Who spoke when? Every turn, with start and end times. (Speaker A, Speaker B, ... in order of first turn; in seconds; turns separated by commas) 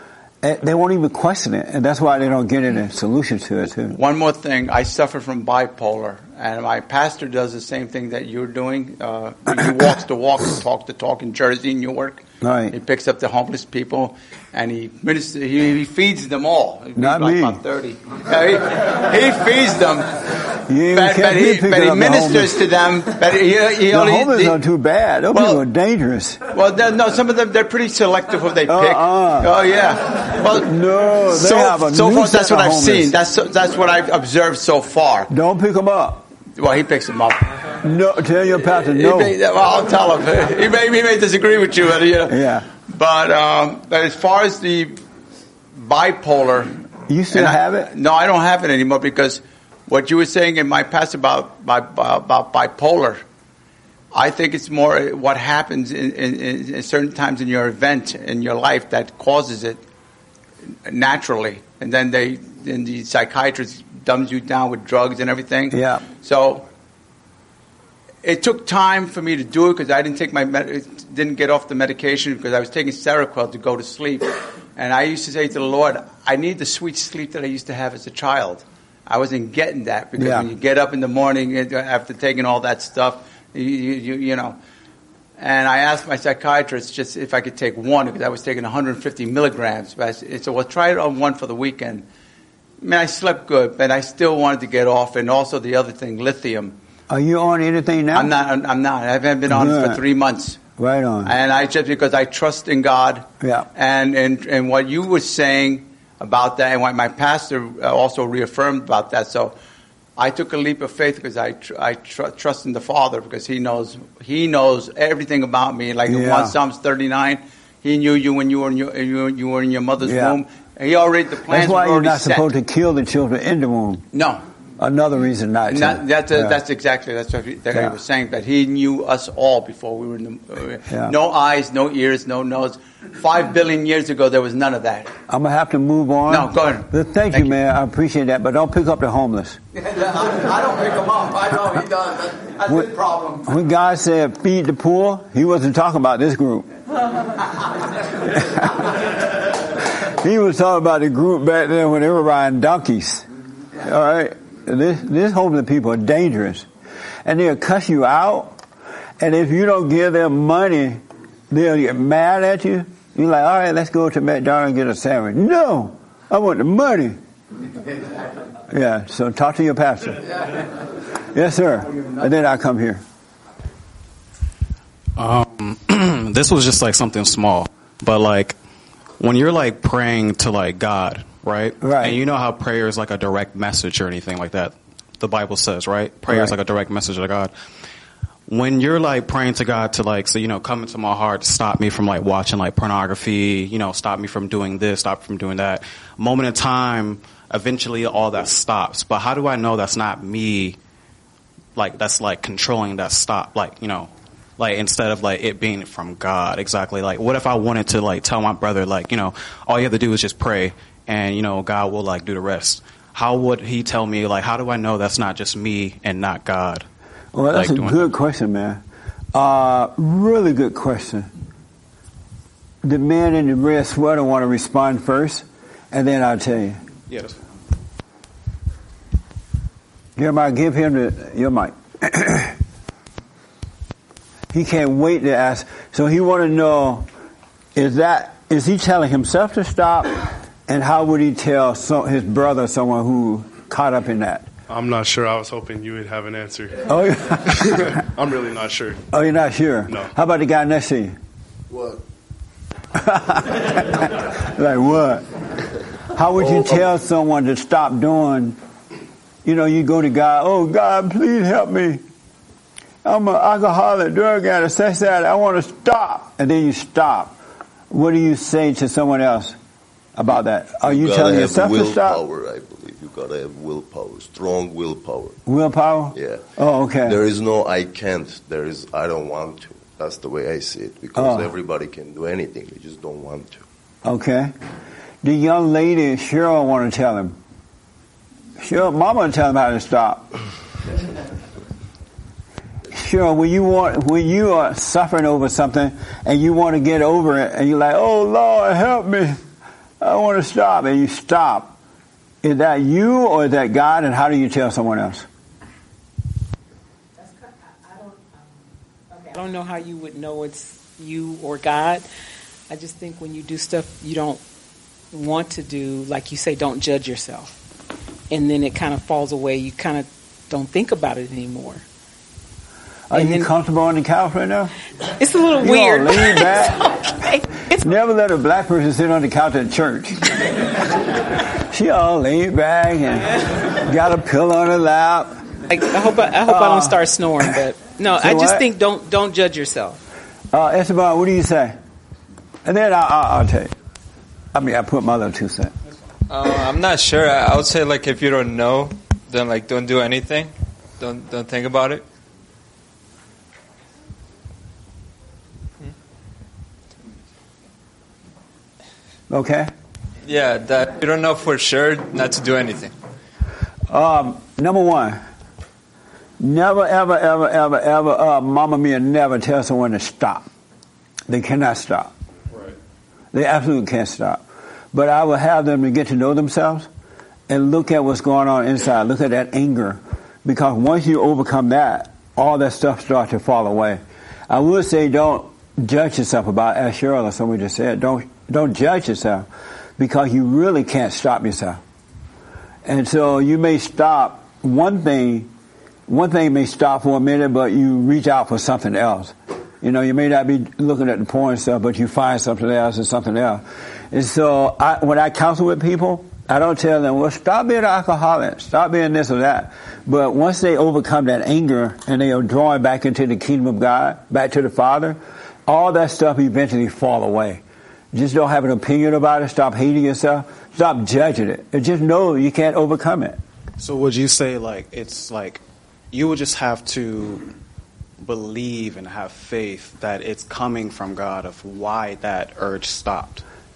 Speaker A: 0.4-4.0, Speaker B: 3.9-20.2, Speaker A: 12.4-12.7, Speaker A: 16.9-17.6, Speaker A: 20.7-22.6, Speaker B: 20.9-24.6, Speaker A: 23.9-26.4, Speaker B: 25.3-25.6, Speaker B: 26.5-30.7, Speaker A: 28.7-29.6, Speaker A: 30.5-33.1, Speaker B: 31.2-35.3, Speaker A: 35.3-36.3, Speaker B: 36.5-37.7, Speaker A: 37.8-39.4, Speaker B: 38.8-45.0, Speaker A: 42.3-42.7, Speaker B: 45.7-46.7, Speaker A: 47.1-47.9, Speaker B: 47.3-53.2, Speaker B: 54.1-59.8, Speaker B: 60.9-66.6, Speaker A: 65.7-66.0, Speaker B: 68.2-84.6, Speaker A: 80.2-80.5, Speaker B: 85.4-92.0, Speaker B: 92.8-96.7, Speaker A: 97.1-98.3, Speaker B: 98.1-100.6, Speaker A: 99.5-100.0, Speaker A: 100.8-101.3, Speaker B: 101.2-109.5, Speaker A: 103.4-103.7, Speaker B: 110.2-122.5, Speaker A: 116.1-116.5, Speaker A: 120.0-120.4, Speaker A: 121.5-124.0, Speaker B: 124.1-124.4, Speaker A: 124.8-126.6, Speaker B: 125.7-135.1, Speaker A: 130.9-131.1, Speaker A: 135.3-139.6, Speaker B: 136.3-137.5, Speaker B: 139.8-143.5, Speaker A: 143.4-146.7, Speaker A: 148.2-148.9, Speaker A: 149.9-153.2, Speaker A: 153.8-156.7, Speaker A: 157.2-158.6, Speaker A: 159.2-167.2, Speaker A: 168.7-170.4, Speaker A: 171.3-173.0, Speaker C: 175.2-178.6, Speaker C: 179.2-187.5, Speaker A: 181.8-182.2, Speaker A: 186.3-186.5, Speaker C: 188.5-200.8, Speaker C: 201.8-216.8, Speaker A: 217.3-218.8, Speaker C: 217.5-218.1, Speaker A: 219.3-221.3, Speaker A: 222.8-226.8, Speaker C: 227.1-227.4, Speaker A: 230.2-232.6, Speaker A: 234.5-237.1, Speaker A: 237.8-244.5, Speaker D: 244.7-246.9, Speaker A: 246.8-247.9, Speaker D: 247.5-249.0, Speaker A: 249.1-251.1, Speaker E: 251.7-252.0, Speaker A: 252.9-255.3, Speaker A: 256.1-258.6, Speaker A: 259.4-262.0, Speaker A: 263.0-267.4, Speaker A: 267.9-269.6, Speaker A: 270.2-272.2, Speaker E: 270.8-275.4, Speaker A: 275.4-277.2, Speaker E: 276.1-276.5, Speaker E: 277.0-283.6, Speaker A: 281.1-281.5, Speaker A: 284.0-284.5, Speaker A: 285.2-287.4, Speaker A: 288.6-290.3, Speaker A: 292.9-299.4, Speaker A: 300.0-301.8, Speaker A: 302.4-305.2, Speaker F: 307.2-308.2, Speaker F: 309.1-312.1, Speaker F: 312.7-314.4, Speaker F: 315.1-317.5, Speaker F: 318.3-321.8, Speaker A: 323.1-324.7, Speaker F: 323.1-323.5, Speaker F: 325.2-327.8, Speaker A: 325.6-326.9, Speaker A: 327.7-330.3, Speaker A: 331.7-335.4, Speaker F: 335.7-340.0, Speaker A: 336.4-337.0, Speaker A: 338.1-338.6, Speaker A: 340.5-341.8, Speaker A: 342.6-343.7, Speaker A: 344.5-345.7, Speaker G: 346.3-352.0, Speaker A: 359.3-359.7, Speaker G: 360.2-362.9, Speaker A: 363.9-365.2, Speaker A: 366.4-370.5, Speaker A: 371.3-372.1, Speaker A: 373.3-376.9, Speaker A: 377.5-389.5, Speaker A: 390.0-391.8, Speaker A: 392.8-395.5, Speaker A: 396.1-423.4, Speaker C: 423.8-427.5, Speaker C: 428.2-433.4